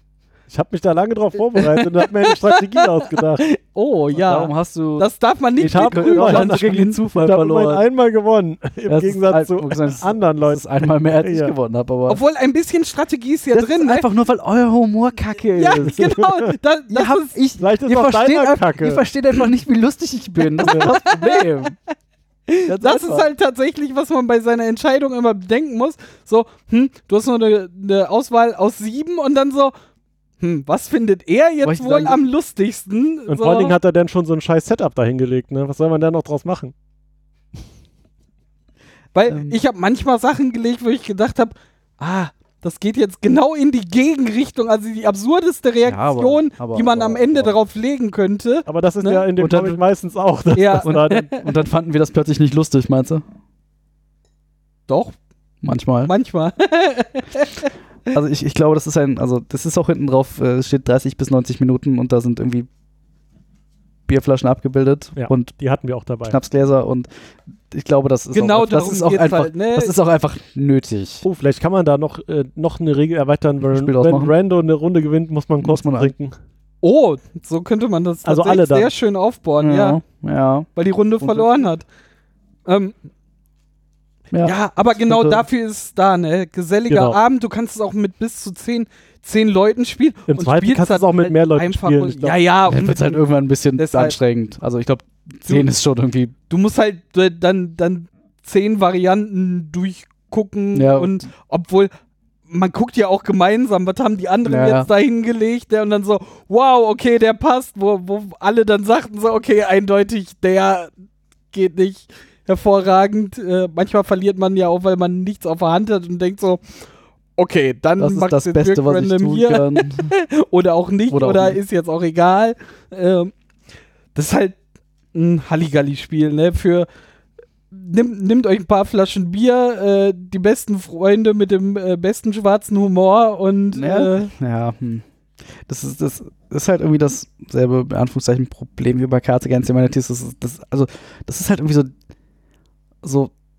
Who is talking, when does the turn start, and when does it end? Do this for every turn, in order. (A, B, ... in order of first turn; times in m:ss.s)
0:00.5-0:03.4 A
0:01.5-0:07.0 B
0:04.1-0:07.8 C
0:05.6-0:10.6 A
0:08.9-0:12.2 C
0:11.2-0:11.5 A
0:12.1-0:14.0 B
0:13.5-0:16.2 C
0:15.6-0:17.4 B
0:15.8-0:16.5 A
0:16.9-0:21.7 C
0:17.6-0:19.0 A
0:20.5-0:21.7 B
0:20.6-0:20.9 A
0:22.5-0:29.7 B
0:22.6-0:23.3 C
0:30.4-0:33.7 B
0:31.6-0:32.2 C
0:33.3-0:36.7 A
0:39.1-0:49.2 B
0:39.3-0:39.6 C
0:45.8-0:47.6 C
0:48.6-0:51.3 A
0:49.4-0:49.8 C
0:50.5-0:51.4 B
0:50.8-0:53.2 C
0:54.9-0:55.2 B
0:55.6-0:56.1 C
0:56.0-0:57.7 B
0:58.1-1:02.7 C
1:04.1-1:05.5 C
1:05.2-1:06.4 A
1:06.3-1:07.1 C
1:07.7-1:11.2 C
1:08.3-1:09.9 B
1:11.2-1:16.3 A
1:13.6-1:14.3 C
1:15.6-1:16.1 C
1:16.8-1:20.0 B
1:18.2-1:18.9 A
1:19.6-1:20.7 C
1:20.8-1:21.8 B
1:21.2-1:21.5 C
1:22.6-1:23.0 B
1:24.3-1:25.4 C
1:24.4-1:33.2 B
1:26.9-1:27.2 A
1:30.3-1:32.4 A
1:32.7-1:36.3 C
1:33.8-1:34.2 B
1:36.5-1:41.9 B
1:40.7-1:41.2 C
1:42.5-1:50.9 B
1:44.4-1:44.9 C
1:51.5-1:56.6 B
1:57.4-2:03.3 B
1:58.0-2:00.1 C
2:01.1-2:01.6 C
2:04.1-2:04.6 B
2:05.1-2:06.9 B
2:07.7-2:14.3 B
2:13.7-2:15.0 C
2:15.6-2:21.9 C
2:23.0-2:23.3 C